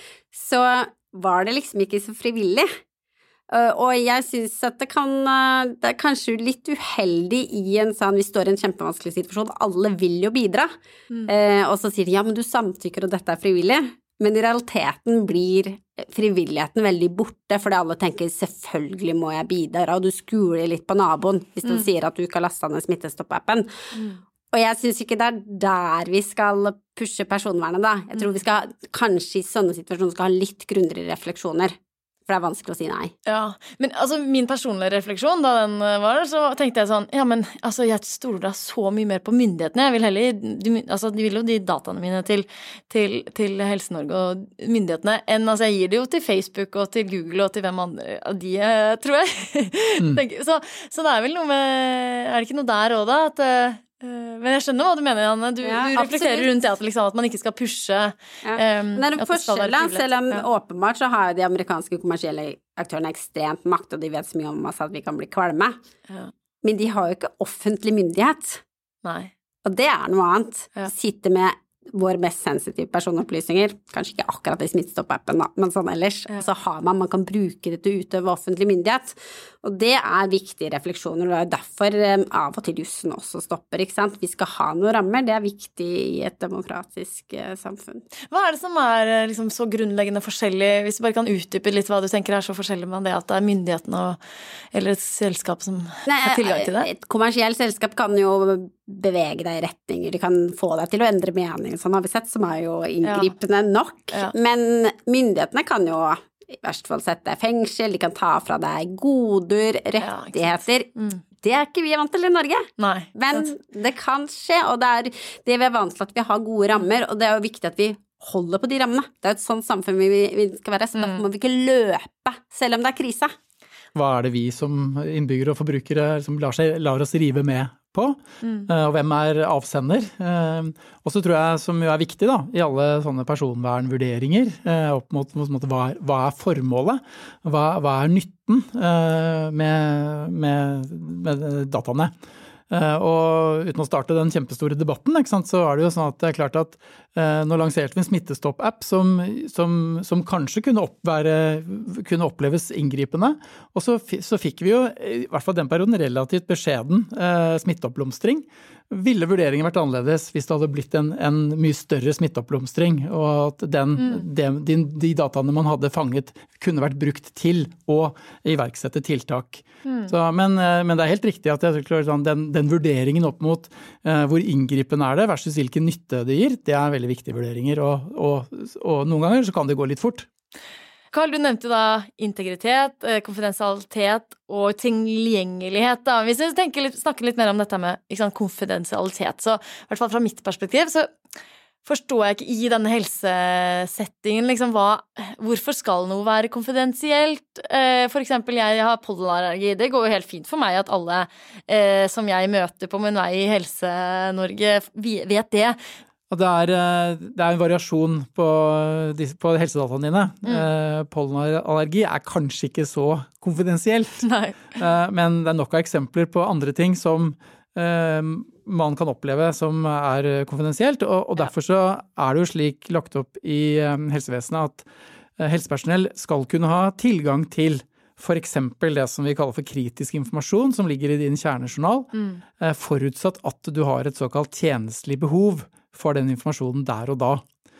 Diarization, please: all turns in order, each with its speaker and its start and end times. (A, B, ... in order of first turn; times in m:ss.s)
0:00.3-0:02.7 A
0:03.5-0:10.7 A
0:11.3-0:23.7 A
0:24.5-0:31.7 A
0:32.3-0:33.1 A
0:33.2-1:00.4 B
0:55.6-0:56.5 A
0:58.4-1:05.8 A
1:06.6-1:08.6 A
1:09.0-1:09.3 B
1:09.6-1:28.0 A
1:28.3-1:34.2 B
1:34.7-1:36.9 B
1:36.0-2:03.3 A
1:43.0-1:43.3 B
1:50.0-1:50.4 B
1:52.8-1:53.4 B
2:01.0-2:01.2 B
2:03.9-2:22.1 C
2:08.4-2:08.7 B
2:22.7-3:00.3 C
2:49.8-2:50.1 B
3:01.1-3:11.1 B
3:11.8-3:25.8 B
3:26.3-3:44.8 C
3:34.2-3:34.7 B
3:45.4-3:57.4 C
3:52.1-3:52.4 B